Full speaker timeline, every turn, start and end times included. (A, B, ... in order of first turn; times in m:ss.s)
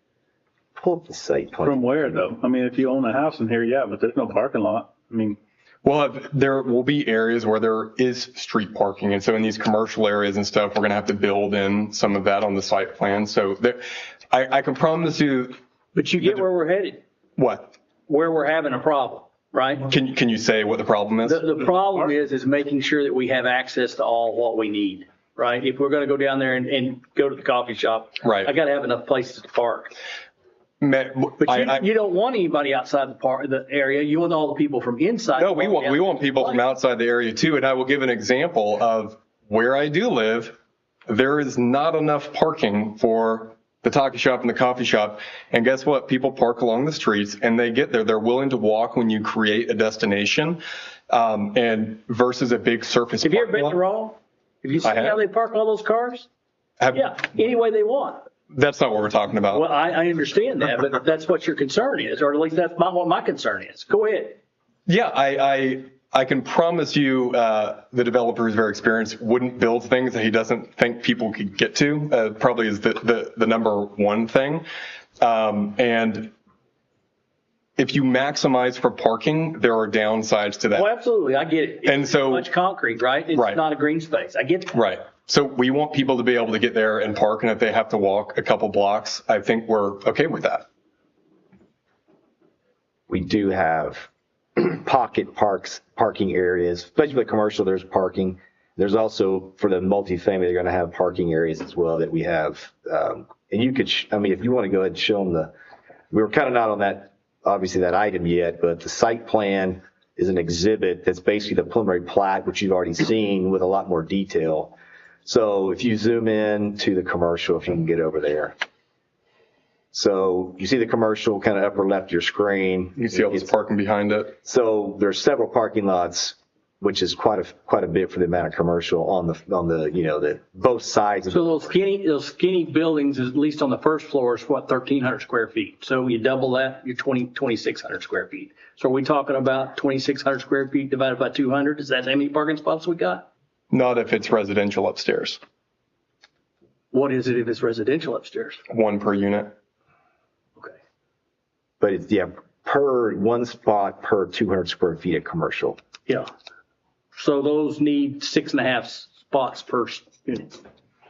0:00.8-0:02.0 A
0:01.6-0:05.4 B
0:05.8-0:15.6 C
0:15.9-0:17.0 D
0:17.4-0:17.7 C
0:18.1-0:19.9 D
0:19.9-0:21.4 C
0:21.2-0:29.9 D
0:28.2-0:28.5 C
0:30.8-0:31.8 C
0:31.4-0:36.6 D
0:35.4-0:40.6 C
0:41.1-0:53.8 C
0:53.2-0:56.3 D
0:54.8-0:55.2 C
0:56.8-0:57.0 C
0:56.9-0:58.2 D
0:58.5-0:59.7 C
0:59.5-1:04.4 D
1:04.9-1:14.6 C
1:15.2-1:16.3 C
1:17.8-1:20.9 C
1:20.7-1:24.8 D
1:21.8-1:22.5 C
1:23.3-1:23.6 C
1:24.7-1:30.6 C
1:33.1-1:45.5 A
1:46.1-1:58.6 A
1:59.9-2:03.5 A
2:03.0-2:04.3 C
2:04.4-2:11.7 A
2:11.3-2:23.3 D
2:23.7-2:25.4 C
2:26.9-2:28.6 D
2:28.7-2:29.5 C
2:31.8-2:35.8 A
2:37.1-2:40.6 D